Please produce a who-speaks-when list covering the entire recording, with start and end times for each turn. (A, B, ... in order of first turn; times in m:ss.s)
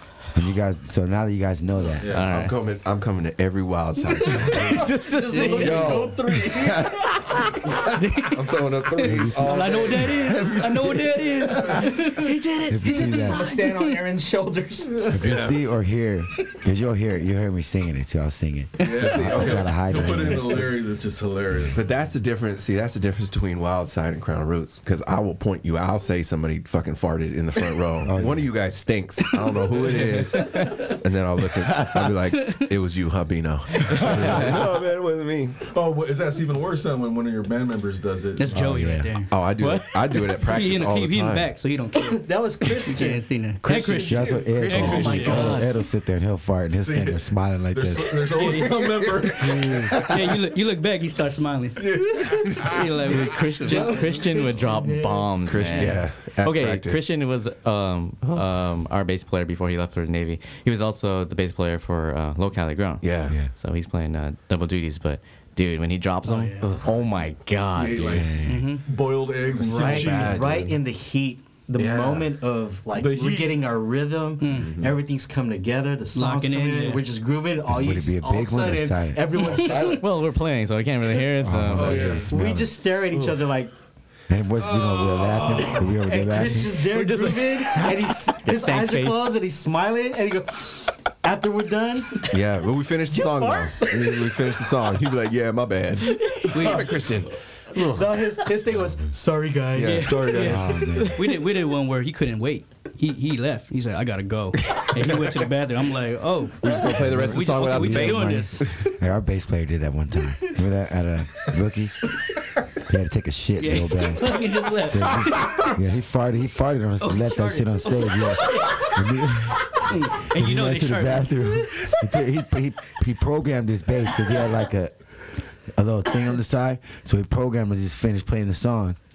0:00.3-0:02.1 A
0:01.8-0:02.5 B
0:02.1-0:02.6 C
0:02.2-0:06.5 D
0:04.4-0:07.5 E
0:04.5-0:06.0 C
0:07.9-0:14.0 F
0:08.3-0:10.3 D
0:09.0-0:09.7 A
0:09.7-0:11.9 B
0:11.6-0:15.1 E
0:12.7-0:13.5 A
0:14.9-0:15.4 B
0:15.1-0:20.8 A
0:15.2-0:15.6 D
0:18.8-0:21.8 B
0:19.0-0:20.3 D
0:21.7-0:35.7 D
0:28.0-0:28.5 A
0:29.9-0:30.7 F
0:32.4-0:32.7 F
0:34.0-0:34.6 C
0:34.2-0:34.5 A
0:35.7-0:39.0 B
0:38.4-0:39.3 F
0:38.5-0:39.2 A
0:39.3-0:41.5 D
0:39.6-0:40.3 C
0:40.4-0:45.6 F
0:42.0-0:45.7 E
0:43.6-0:44.1 D
0:43.8-0:48.6 A
0:44.7-0:45.7 C
0:46.8-0:50.2 B
0:48.3-0:48.9 F
0:49.4-0:49.8 C
0:50.0-0:54.7 F
0:51.8-0:53.0 B
0:53.0-1:08.3 C
0:53.6-0:55.4 E
0:55.4-0:57.1 D
0:58.2-0:58.6 D
1:03.0-1:03.4 D
1:06.2-1:06.7 F
1:07.7-1:10.4 B
1:08.0-1:08.7 A
1:08.5-1:08.8 F
1:09.6-1:20.0 E
1:09.6-1:10.8 D
1:11.8-1:12.3 D
1:12.9-1:13.5 B
1:14.4-1:14.8 F
1:14.5-1:15.0 D
1:16.1-1:17.0 F
1:17.7-1:19.3 A
1:19.4-1:19.9 F
1:19.5-1:19.9 D
1:19.6-1:22.2 C
1:21.4-1:22.8 A
1:21.7-1:22.3 B
1:22.2-1:23.7 E
1:24.3-1:26.9 A
1:24.6-1:25.9 B
1:25.9-1:32.4 E
1:26.8-1:29.3 C
1:32.3-1:38.1 D
1:33.1-1:34.5 E
1:36.0-1:37.0 E
1:36.4-1:36.9 F
1:37.7-1:40.6 E
1:39.7-1:40.6 D
1:39.8-1:48.7 F
1:40.0-1:40.8 B
1:40.3-1:41.3 A
1:44.6-1:45.2 D
1:46.6-1:48.9 D
1:46.8-1:52.1 A
1:52.8-2:05.0 A
1:53.6-1:55.7 F
1:57.0-1:58.9 F
1:58.3-1:58.9 E
1:59.7-2:01.9 F
2:05.7-2:09.0 A